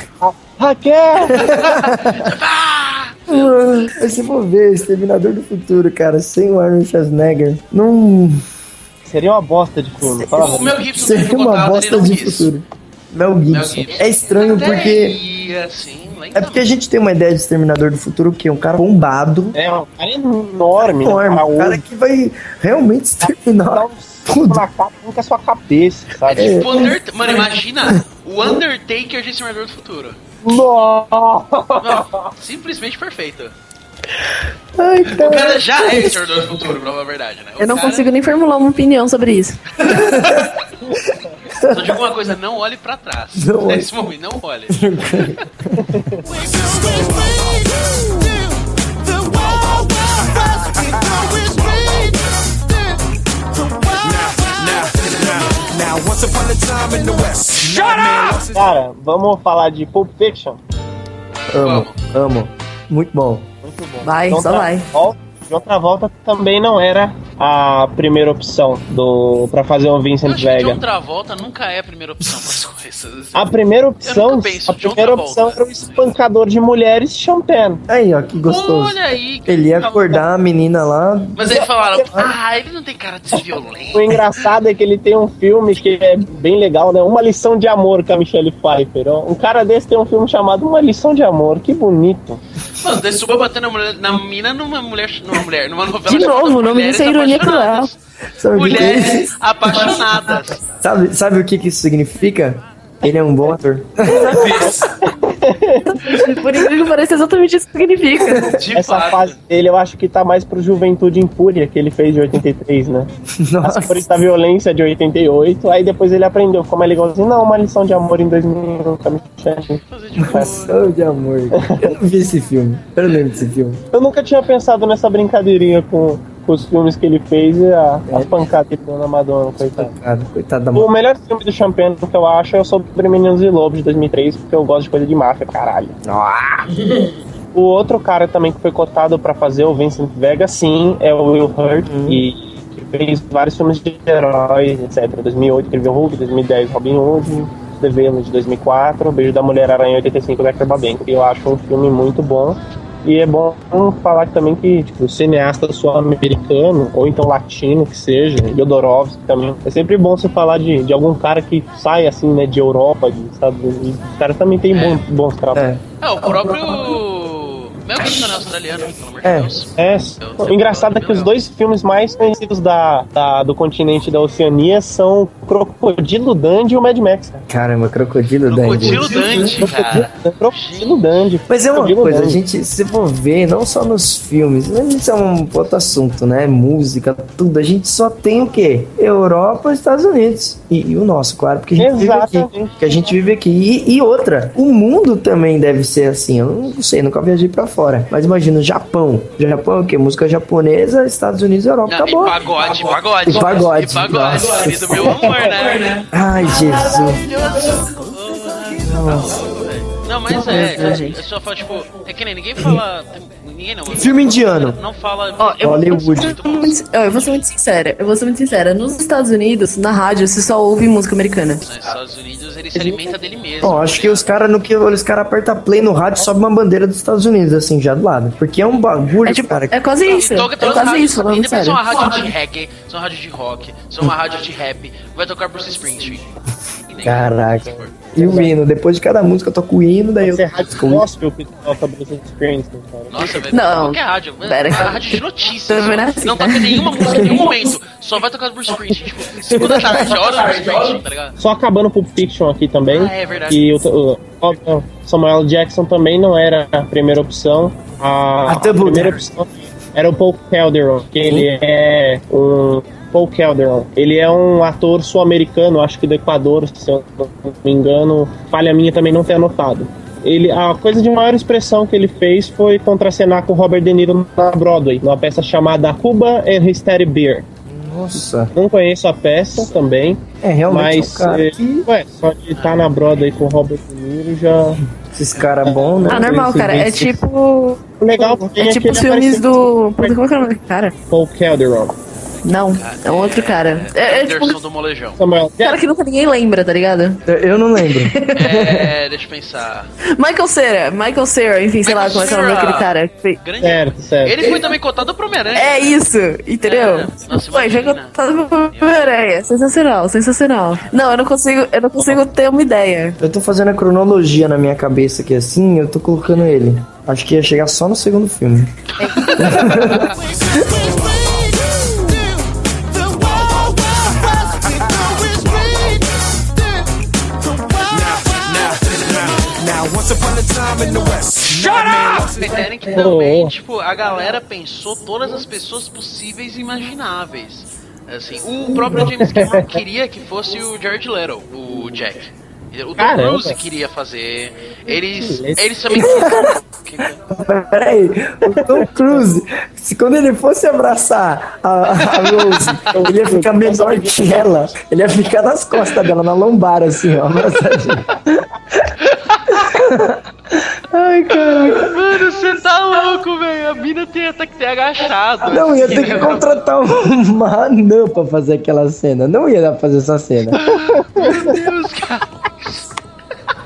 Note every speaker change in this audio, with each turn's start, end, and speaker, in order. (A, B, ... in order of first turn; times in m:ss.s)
0:00.2-0:01.5 A
0:01.3-0:03.9 B
0:01.3-0:02.3 C
0:03.3-0:08.4 C
0:09.0-0:10.8 A
0:10.0-0:15.2 C
0:10.3-0:12.5 B
0:13.5-0:16.7 B
0:16.3-0:19.6 C
0:19.5-0:21.8 A
0:20.8-0:24.6 C
0:23.2-0:26.6 A
0:26.3-0:30.2 B
0:26.3-0:26.9 C
0:30.4-0:32.3 A
0:31.8-0:33.5 B
0:34.2-0:36.4 C
0:35.1-0:38.1 B
0:37.6-0:39.6 D
0:39.8-0:40.7 B
0:39.8-0:40.5 C
0:40.8-0:41.4 A
0:41.6-0:41.9 C
0:41.6-0:45.2 B
0:43.3-0:43.9 C
0:44.7-0:46.0 C
0:45.9-0:46.2 A
0:46.3-0:52.5 E
0:53.5-0:58.6 E
0:58.5-1:00.6 A
1:01.5-1:03.5 C
1:01.5-1:02.0 B
1:03.6-1:10.8 A
1:04.0-1:04.8 D
1:10.2-1:13.4 B
1:13.4-1:17.8 A
1:14.0-1:15.6 B
1:17.9-1:21.6 C
1:18.4-1:20.2 B
1:21.3-1:24.1 B
1:23.9-1:32.4 A
1:32.8-1:38.0 B
1:36.0-1:37.9 D
1:38.4-1:40.0 C
1:38.5-1:40.6 B
1:40.6-1:44.7 C
1:44.0-1:44.6 D
1:44.3-1:44.9 B
1:44.6-1:46.3 A
1:46.0-1:48.5 D
1:48.2-1:48.6 C
1:48.5-1:49.4 B
1:48.7-1:53.1 A
1:53.4-1:54.1 C
1:53.6-1:59.8 A
1:59.7-2:00.8 B
2:00.2-2:03.8 C
2:01.6-2:01.9 A
2:03.9-2:09.9 A
2:08.1-2:08.4 C
2:09.6-2:10.9 C
2:10.7-2:16.0 A
2:16.0-2:16.7 C
2:17.5-2:45.7 A
2:21.8-2:22.2 C
2:44.7-2:45.0 B
2:45.5-2:46.9 C
2:46.0-2:51.3 B
2:48.0-2:48.4 C
2:49.2-2:49.6 C
2:49.8-2:57.4 A
2:57.5-3:00.1 C
2:58.5-3:01.3 B
2:58.8-3:02.4 A
3:01.5-3:22.4 C
3:11.8-3:13.1 A
3:21.9-3:37.4 B
3:23.2-3:25.4 C
3:25.0-3:25.5 A
3:26.1-3:27.2 C
3:28.7-3:29.4 C
3:30.3-3:31.2 D
3:30.4-3:31.0 C
3:33.9-3:34.8 C
3:35.4-3:41.6 D
3:35.6-3:36.4 C
3:41.6-3:44.3 B
3:42.8-3:43.1 A
3:43.6-3:49.8 C
3:49.2-3:51.8 D
3:50.0-3:58.2 B
3:57.0-4:01.0 C
3:58.1-3:58.5 A
4:00.2-4:03.4 A
4:03.1-4:11.4 B
4:03.5-4:07.7 D
4:07.0-4:07.4 C
4:09.5-4:10.2 C
4:11.4-4:37.5 A
4:12.9-4:13.6 B
4:18.4-4:19.2 C
4:37.6-4:38.5 C
4:38.5-4:44.8 A
4:40.4-4:41.9 C
4:42.5-4:42.9 B
4:45.0-4:46.4 C
4:45.6-4:47.2 A
4:46.1-4:50.9 D
4:48.0-4:50.1 A
4:51.1-4:51.9 A
4:52.4-4:54.6 D
4:52.7-4:55.2 B
4:55.2-4:55.8 A
4:55.6-4:57.2 D
4:57.2-4:58.9 C
4:57.8-4:58.7 D
4:58.3-4:59.9 B
5:00.1-5:03.4 D
5:01.8-5:06.0 B
5:03.6-5:04.5 A
5:05.6-5:13.2 D
5:06.6-5:09.2 B
5:13.2-5:18.7 C
5:18.9-5:20.2 B
5:19.0-5:19.3 D
5:19.4-5:20.7 C
5:19.8-5:26.8 E
5:27.4-5:32.7 E
5:32.4-5:47.2 B
5:32.9-5:33.5 A
5:38.8-5:39.8 A
5:43.0-5:43.6 A
5:44.9-5:46.3 A
5:46.0-5:46.6 C
5:47.3-5:58.9 C
5:48.5-5:49.2 A
5:52.2-5:52.7 B
5:52.9-5:54.4 A
5:59.0-5:59.8 B
5:59.5-6:02.1 C
6:01.3-6:06.7 B
6:05.4-6:10.6 C
6:10.5-6:12.9 B